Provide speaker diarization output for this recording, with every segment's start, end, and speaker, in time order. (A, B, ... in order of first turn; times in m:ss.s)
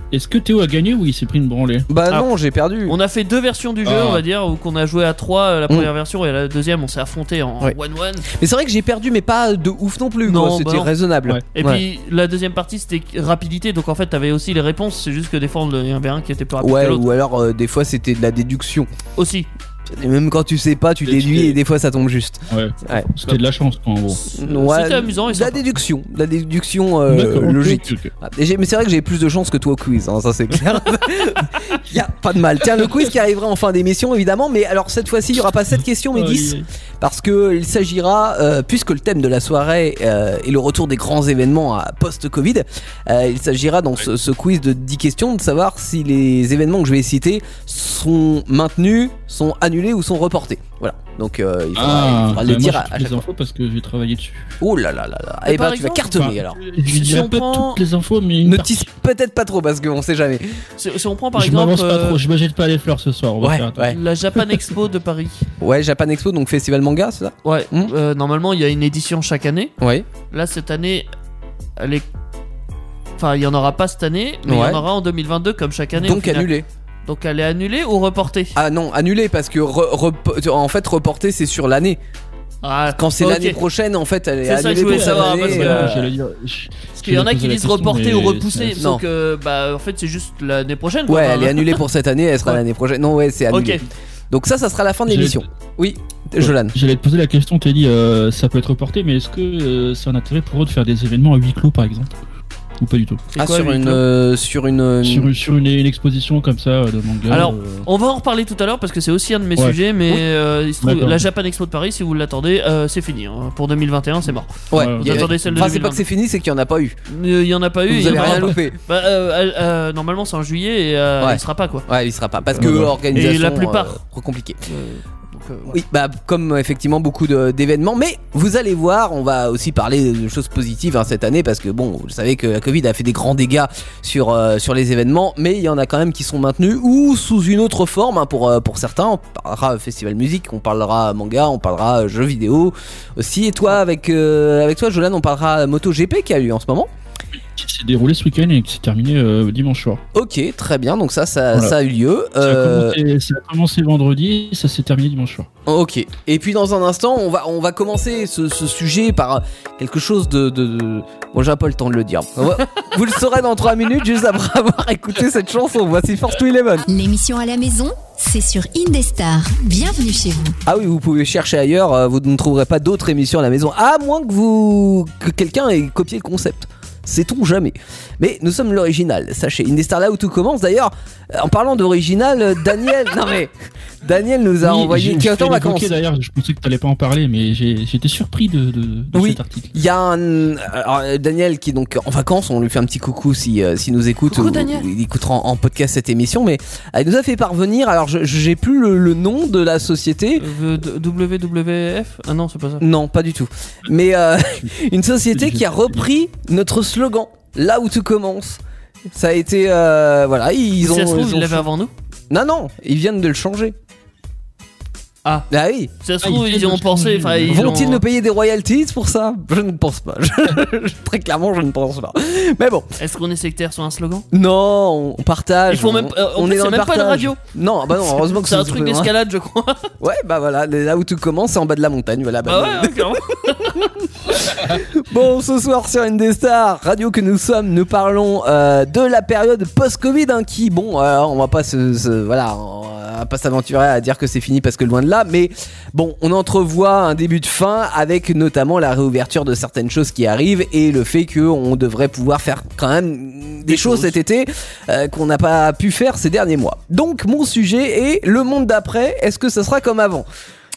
0:00.1-0:01.9 A
0:01.9-0:03.0 B
0:02.9-0:08.3 C
0:03.8-0:04.2 A
0:08.3-0:11.8 B
0:10.2-0:10.9 C
0:11.6-0:17.0 C
0:16.6-0:18.9 B
0:19.2-0:19.5 C
0:19.9-0:23.1 B
0:21.0-0:21.6 A
0:22.5-0:24.2 A
0:24.1-0:25.6 C
0:24.3-0:53.2 B
0:27.1-0:28.1 A
0:36.1-0:36.7 A
0:51.8-0:54.5 A
0:54.6-0:56.6 B
0:55.4-0:57.8 C
0:56.2-0:58.9 A
0:58.4-1:00.6 B
1:00.8-1:02.2 C
1:01.4-1:04.0 A
1:03.4-1:04.0 B
1:03.9-1:05.4 C
1:05.6-1:07.9 B
1:07.4-1:09.7 C
1:09.8-1:10.1 B
1:10.3-1:11.1 C
1:11.8-1:12.1 C
1:13.2-1:16.5 C
1:14.5-1:14.8 B
1:16.0-1:16.7 B
1:17.1-1:18.6 C
1:18.6-1:22.0 B
1:22.6-1:23.6 C
1:23.0-1:26.1 B
1:24.4-1:26.0 C
1:24.8-1:28.8 A
1:27.0-1:31.8 C
1:28.8-1:29.0 B
1:31.1-1:36.8 B
1:33.5-1:33.8 C
1:35.1-1:35.4 A
1:36.4-1:42.2 A
1:42.8-1:43.2 A
1:43.3-1:44.0 C
1:43.4-1:45.3 B
1:45.0-1:47.9 A
1:47.3-1:56.0 C
1:50.8-1:51.2 A
1:54.7-1:57.0 B
1:54.7-1:55.6 A
1:57.1-2:01.9 C
1:57.9-1:58.8 B
1:58.1-1:58.4 A
2:01.2-2:04.6 B
2:02.6-2:03.0 A
2:02.6-2:04.0 C
2:04.7-2:05.8 C
2:05.7-2:26.9 B
2:27.4-2:30.0 A
2:30.1-2:33.0 B
2:32.4-2:35.5 A
2:35.7-2:46.9 B
2:46.9-2:50.6 D
2:50.7-3:03.5 B
3:04.0-3:05.9 B
3:04.6-3:09.7 A
3:09.1-3:20.4 B
3:14.3-3:14.9 C
3:20.4-3:22.8 C
3:22.8-3:31.6 B
3:25.3-3:26.0 A
3:30.8-3:31.9 C
3:32.3-3:33.8 B
3:35.5-3:35.9 B
3:36.0-3:38.0 C
3:36.2-3:37.8 A
3:37.5-3:42.9 B
3:43.0-3:44.3 C
3:44.3-3:49.1 B
3:45.7-3:47.4 C
3:48.0-3:49.9 C
3:50.0-3:53.2 B
3:52.4-3:54.0 C
3:54.2-4:20.3 B
4:13.7-4:14.2 C